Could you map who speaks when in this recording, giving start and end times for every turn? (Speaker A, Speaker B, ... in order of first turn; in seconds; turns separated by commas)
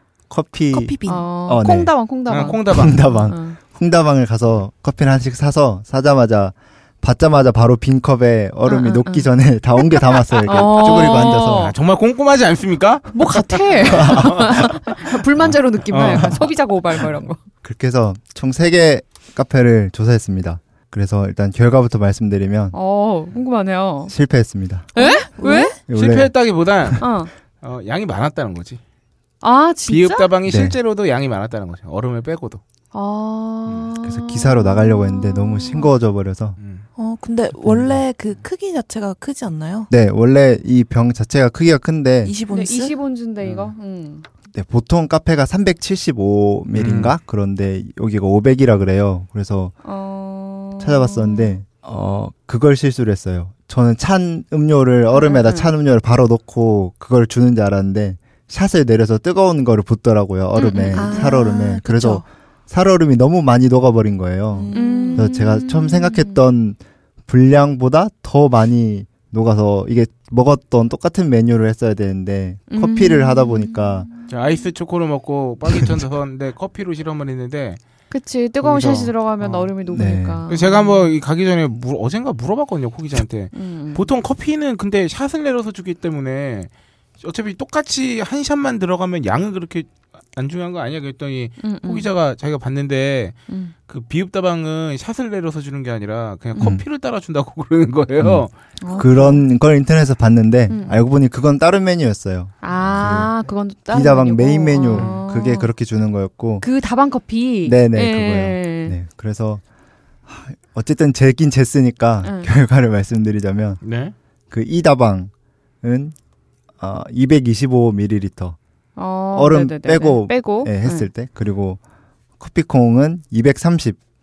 Speaker A: 0.3-1.9, Speaker B: 0.7-1.3, Speaker C: 1.1-3.6, Speaker D: 2.3-3.0, Speaker A: 2.6-11.8, Speaker C: 8.7-9.3, Speaker C: 10.1-11.7, Speaker D: 10.5-15.2, Speaker C: 13.1-17.4, Speaker A: 14.0-14.3, Speaker D: 15.9-16.5, Speaker A: 17.6-22.7, Speaker C: 22.7-24.1, Speaker A: 24.1-24.9, Speaker C: 24.9-25.8, Speaker B: 25.0-25.8, Speaker A: 25.9-26.3, Speaker D: 25.9-27.0, Speaker C: 27.0-27.3, Speaker D: 27.6-28.8, Speaker C: 29.4-30.3, Speaker D: 29.9-32.6, Speaker A: 30.5-30.8, Speaker C: 32.9-35.9, Speaker A: 34.0-36.6, Speaker D: 36.6-36.9, Speaker B: 37.0-39.9, Speaker A: 37.6-38.0, Speaker A: 39.9-42.4, Speaker B: 42.2-43.0, Speaker C: 42.5-44.2, Speaker D: 43.4-43.7, Speaker A: 44.5-49.7, Speaker D: 46.7-47.1, Speaker C: 49.8-51.6, Speaker A: 50.8-74.1, Speaker C: 55.1-55.7, Speaker C: 60.6-61.4, Speaker B: 61.0-62.2, Speaker B: 64.5-65.3, Speaker C: 64.7-66.4, Speaker C: 72.7-74.3, Speaker D: 74.3-77.8, Speaker C: 78.1-81.0, Speaker D: 78.6-79.7, Speaker A: 79.9-80.4, Speaker D: 80.5-98.5, Speaker C: 83.5-84.1, Speaker C: 91.6-92.1, Speaker C: 93.5-93.7, Speaker A: 96.6-96.8, Speaker A: 98.2-103.4, Speaker C: 98.8-99.4, Speaker C: 100.7-101.0, Speaker C: 102.6-105.7, Speaker D: 102.8-103.2, Speaker A: 103.9-106.7, Speaker C: 106.6-109.0, Speaker A: 107.7-109.6, Speaker A: 110.3-113.8, Speaker C: 112.2-112.5, Speaker D: 113.8-114.1, Speaker A: 114.5-115.3, Speaker A: 115.8-116.2, Speaker A: 116.8-118.6, Speaker C: 119.0-121.1, Speaker A: 119.3-121.8, Speaker A: 122.4-124.0